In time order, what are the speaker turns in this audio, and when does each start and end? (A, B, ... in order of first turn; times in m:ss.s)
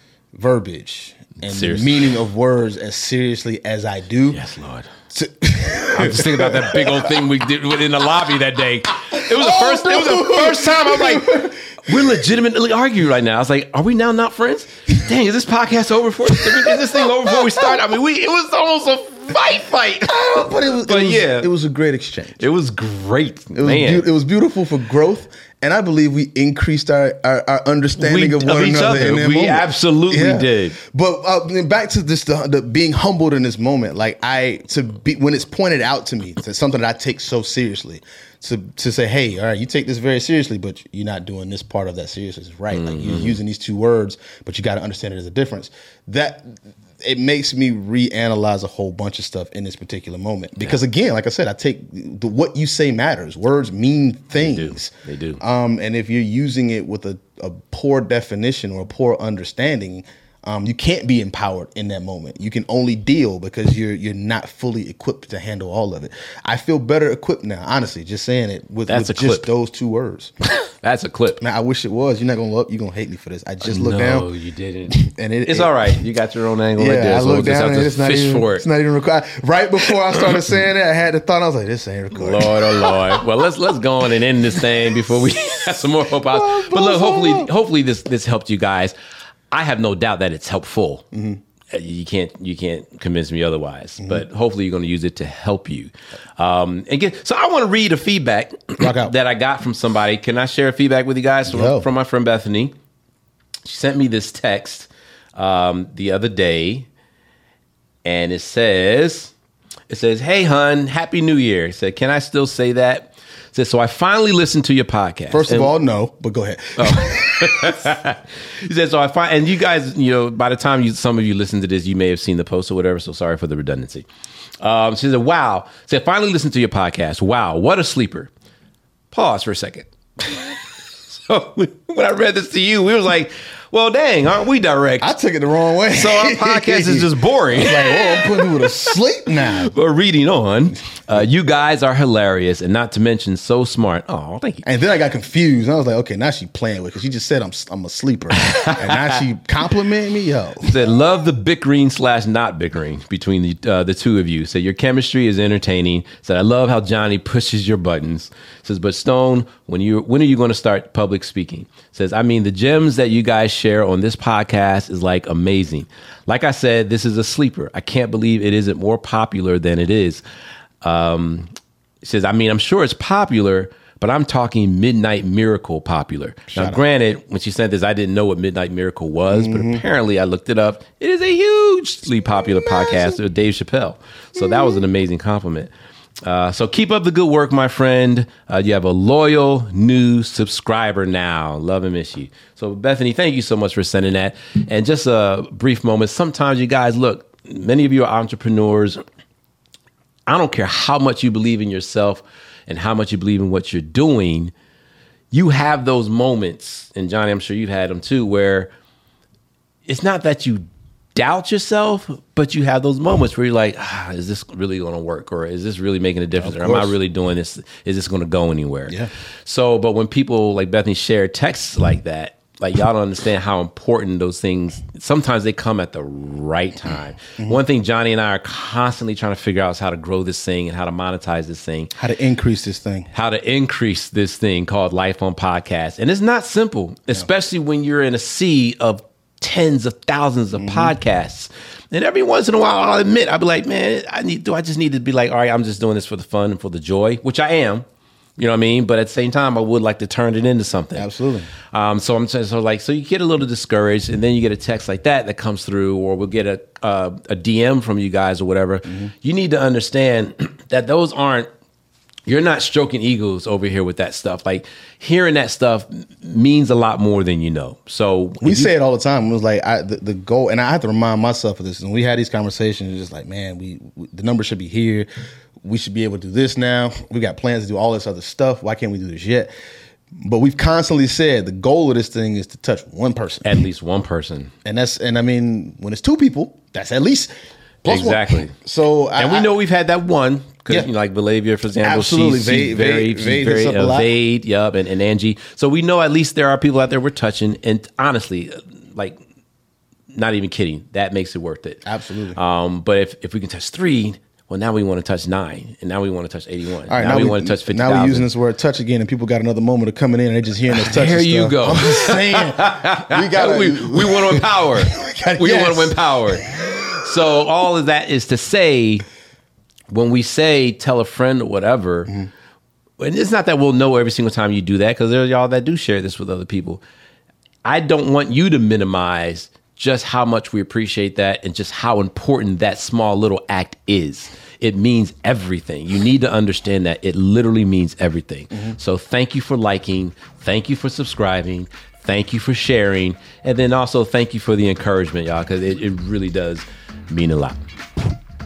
0:00.3-0:04.4 A
0:01.4-0:02.1 B
0:04.3-0:04.9 B
0:05.1-0:08.1 A
0:05.9-0:21.5 B
0:09.2-0:12.3 A
0:16.4-0:17.8 A
0:20.0-0:22.4 A
0:22.4-0:24.0 B
0:23.5-1:10.3 A
0:28.0-0:30.8 B
0:42.7-0:43.4 B
0:54.4-0:55.4 B
1:08.9-1:09.5 B
1:10.6-1:11.4 B
1:11.4-1:14.3 A
1:13.6-1:18.6 B
1:14.9-1:16.0 A
1:16.8-1:23.2 A
1:22.1-1:28.9 B
1:24.6-1:24.9 A
1:26.2-1:27.5 A
1:29.5-1:31.1 B
1:31.1-1:31.4 A
1:31.7-1:42.7 B
1:38.8-1:39.1 A
1:41.5-1:41.9 A
1:43.6-1:46.9 B
1:48.0-1:49.3 B
1:49.9-1:55.7 B
1:55.3-1:57.9 A
1:56.8-2:04.0 B
2:04.6-2:08.3 B
2:09.1-2:15.1 B
2:15.0-2:19.7 A
2:15.9-2:24.6 B
2:24.6-2:30.7 A
2:28.4-2:29.1 B
2:30.6-2:50.2 B
2:50.8-3:05.7 B
2:56.5-2:56.8 A
2:59.3-2:59.8 A
3:02.6-3:03.0 A
3:04.4-3:04.8 A
3:06.2-3:19.0 B
3:20.3-3:24.5 B
3:25.3-3:28.7 B
3:29.8-3:51.9 B
3:36.4-3:37.0 A
3:52.0-3:53.1 A
3:53.1-4:07.8 B
4:00.5-4:00.9 A
4:08.4-4:11.1 B
4:10.9-4:11.5 A
4:11.6-4:21.5 B
4:22.2-4:28.7 B
4:28.4-4:35.1 A
4:35.6-4:39.5 A
4:40.2-4:43.6 A
4:43.4-4:44.5 B
4:44.6-4:47.3 A
4:47.8-4:49.5 A
4:47.9-4:48.5 B
4:49.2-4:59.2 B
4:51.8-4:54.1 A
5:00.1-5:08.2 B
5:01.8-5:02.4 A
5:06.9-5:17.0 A
5:10.7-5:19.0 B
5:19.9-5:22.1 B
5:23.0-5:26.8 B
5:27.6-5:47.6 B